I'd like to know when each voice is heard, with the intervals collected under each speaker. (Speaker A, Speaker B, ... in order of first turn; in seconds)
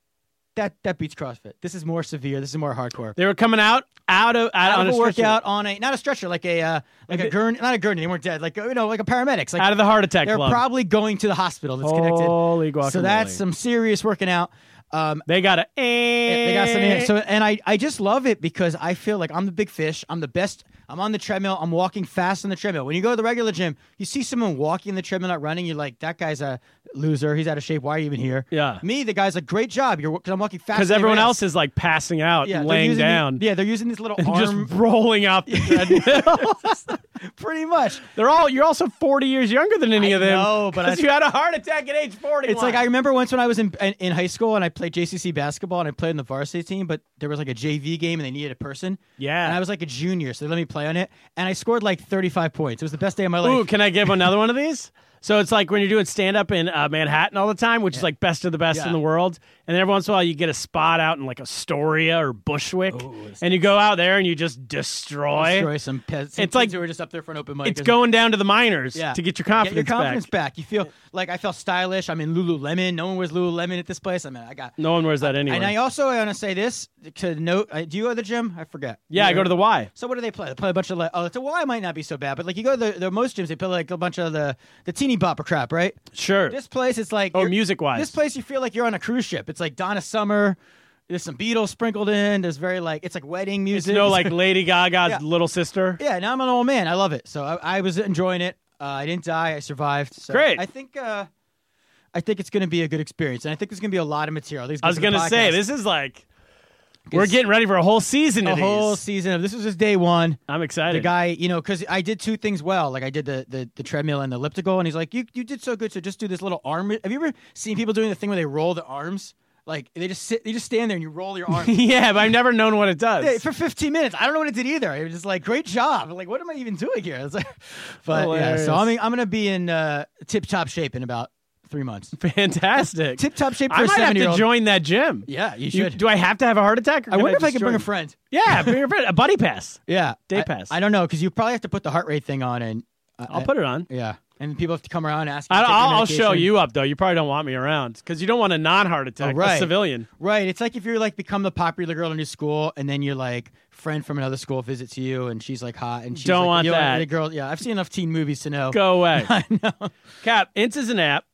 Speaker A: 0.5-3.1, 4.6-9.7, 10.2-15.2, 16.3-31.4, 32.4-34.7, 35.5-38.0, 40.0-41.0, 42.5-53.7, 58.7-59.0, 62.9-63.5, 65.3-68.0, 68.9-86.0, 86.5-90.6, 91.1-94.4, 96.0-101.3, 102.1-105.6, 107.1-107.4, 108.4-121.7, 123.2-132.1, 133.2-134.4, 135.3-136.0, 137.1-138.7, 139.9-146.5, 149.2-159.9
Speaker B: 3.2-5.4, 9.6-10.6, 11.8-13.4, 15.3-17.1, 28.5-28.8, 30.7-33.4, 34.2-36.7, 38.1-42.9, 49.2-49.6, 53.4-65.7, 66.4-66.8, 67.6-70.3, 74.8-75.7, 79.1-79.9, 86.1-86.6, 87.3-88.1, 93.7-96.0, 100.3-100.6, 104.8-106.2, 107.1-109.0, 110.5-111.1, 121.5-123.4, 128.1-128.9, 132.2-140.7, 143.3-143.9, 145.5-150.1, 156.2-157.1, 158.7-159.3, 160.2-161.2